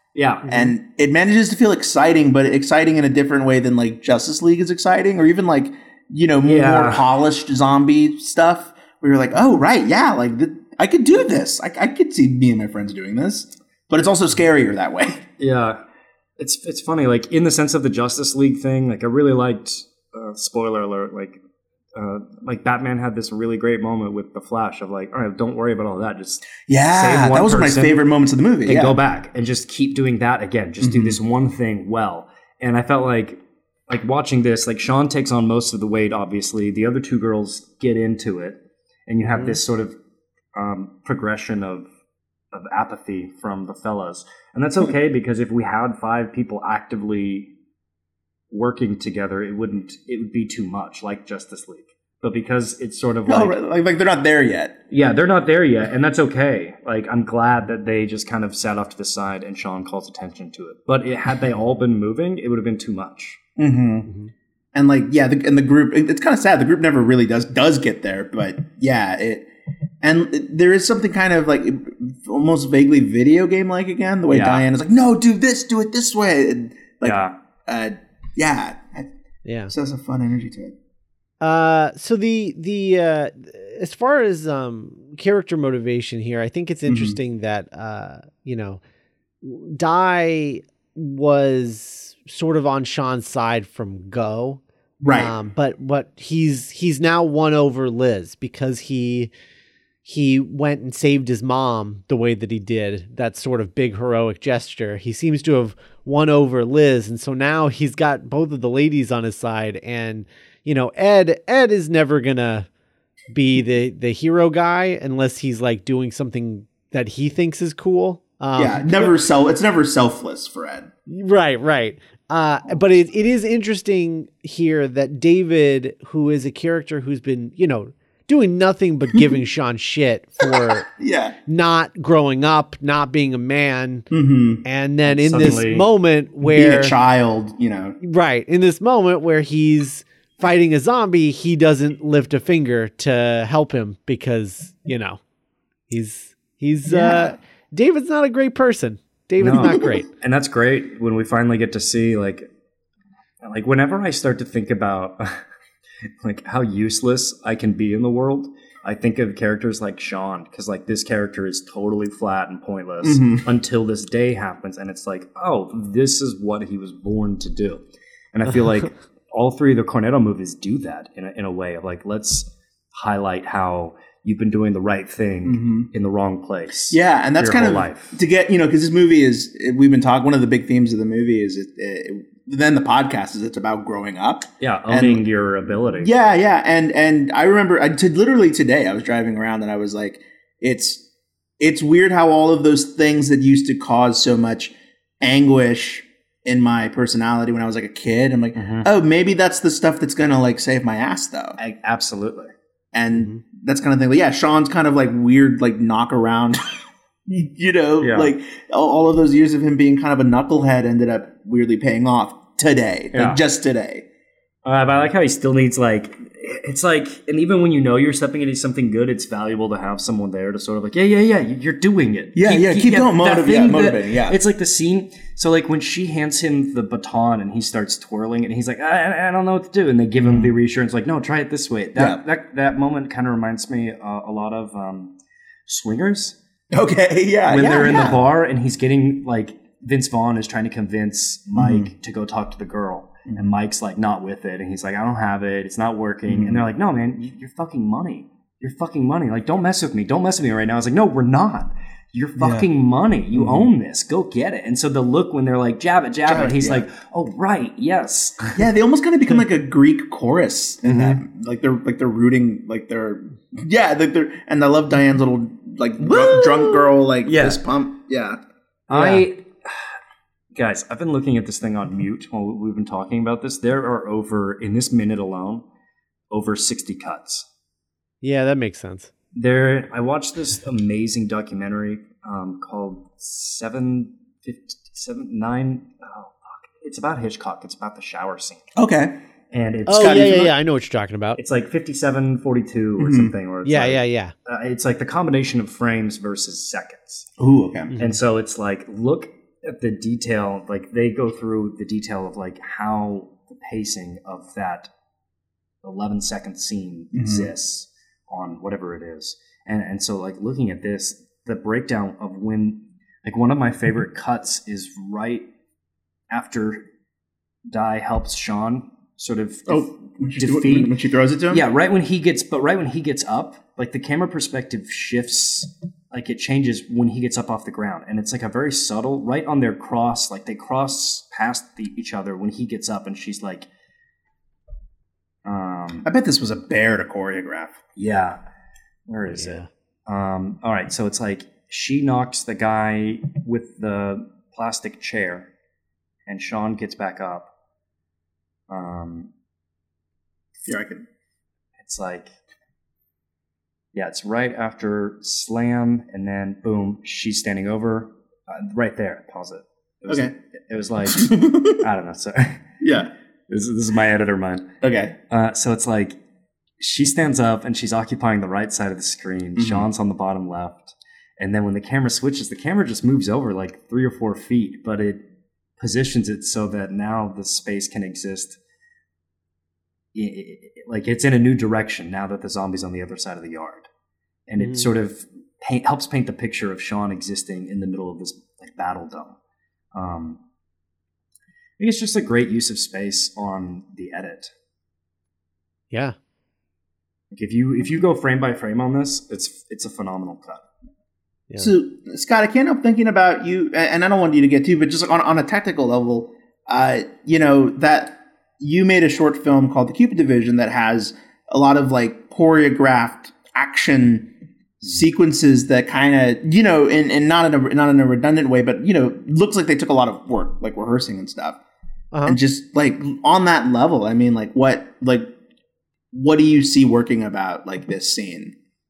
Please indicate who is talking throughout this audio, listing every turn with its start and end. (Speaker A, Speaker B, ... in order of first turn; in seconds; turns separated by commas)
Speaker A: 0.1-0.7, Speaker B: 0.5-15.2, Speaker A: 6.4-7.0, Speaker A: 15.4-15.8, Speaker A: 16.4-21.4, Speaker A: 21.9-28.0, Speaker B: 26.6-29.0, Speaker A: 28.6-40.0, Speaker B: 30.8-31.2, Speaker A: 40.5-41.9, Speaker A: 42.5-47.5, Speaker A: 48.5-53.6, Speaker B: 53.3-54.8, Speaker A: 54.9-63.4, Speaker B: 63.6-64.1, Speaker B: 64.7-69.5, Speaker B: 70.0-79.1, Speaker A: 74.3-74.6, Speaker A: 77.0-77.3, Speaker C: 79.4-79.7, Speaker B: 79.7-80.8, Speaker C: 81.4-88.8, Speaker B: 86.9-87.2, Speaker C: 89.4-99.3, Speaker B: 95.0-95.3, Speaker C: 100.0-112.7, Speaker C: 113.3-119.2, Speaker B: 118.5-120.9, Speaker C: 121.1-130.8, Speaker B: 130.4-131.3, Speaker C: 131.5-134.1, Speaker B: 134.1-134.6, Speaker C: 134.6-136.9, Speaker A: 135.1-135.9, Speaker B: 136.4-137.9, Speaker C: 138.0-145.2, Speaker C: 145.9-150.1, Speaker B: 146.9-147.3, Speaker A: 149.4-152.5, Speaker A: 153.4-155.4, Speaker A: 156.1-167.8, Speaker B: 163.0-163.5, Speaker A: 168.3-178.2, Speaker B: 175.4-175.9, Speaker B: 176.9-185.2, Speaker A: 184.6-186.1, Speaker B: 186.0-191.0, Speaker B: 191.6-201.6, Speaker A: 198.6-198.9, Speaker A: 201.6-202.5, Speaker B: 202.9-206.6, Speaker B: 207.2-214.1, Speaker A: 208.0-208.3, Speaker A: 213.1-213.4, Speaker A: 214.6-235.1, Speaker B: 222.3-224.4, Speaker B: 230.2-230.5, Speaker B: 231.9-232.2, Speaker A: 235.7-236.4, Speaker B: 236.7-238.2, Speaker A: 237.5-258.6, Speaker B: 241.5-241.9, Speaker B: 246.3-246.6, Speaker B: 252.4-252.7, Speaker B: 253.3-253.7, Speaker B: 256.2-256.9, Speaker B: 258.5-268.4, Speaker A: 260.8-261.2, Speaker A: 266.1-267.6, Speaker A: 268.9-269.9, Speaker C: 268.9-269.2, Speaker A: 270.5-275.6, Speaker A: 276.3-277.5, Speaker C: 278.2-279.1, Speaker A: 279.3-288.7, Speaker B: 288.8-289.2, Speaker A: 289.5-290.5, Speaker C: 289.9-291.4, Speaker B: 289.9-290.5, Speaker A: 291.4-297.3, Speaker B: 293.0-293.3, Speaker C: 293.6-294.3, Speaker B: 297.4-297.9, Speaker C: 297.9-298.1, Speaker A: 298.0-304.9, Speaker A: 305.8-315.4, Speaker B: 307.1-307.5, Speaker A: 316.3-316.8, Speaker A: 317.7-320.9, Speaker B: 319.7-321.6, Speaker A: 321.5-333.7, Speaker A: 335.4-336.1, Speaker B: 336.0-337.8, Speaker A: 337.9-338.4, Speaker A: 339.1-345.5, Speaker C: 339.3-339.7, Speaker A: 346.3-347.5, Speaker A: 348.7-349.3, Speaker B: 350.6-351.1, Speaker A: 351.8-352.3, Speaker A: 353.9-362.6, Speaker B: 360.1-360.3, Speaker B: 361.0-361.8, Speaker B: 362.8-363.1, Speaker A: 363.5-364.7, Speaker B: 364.8-365.2, Speaker A: 365.3-366.2, Speaker A: 366.8-375.2, Speaker B: 369.6-369.9, Speaker A: 375.8-378.6, Speaker A: 380.1-383.9, Speaker A: 384.5-389.4, Speaker C: 384.6-384.9, Speaker A: 389.9-390.4, Speaker A: 391.8-394.5, Speaker C: 395.9-396.1, Speaker A: 397.3-400.6, Speaker B: 401.6-421.6, Speaker C: 422.1-422.4, Speaker B: 422.2-425.3, Speaker B: 426.1-428.5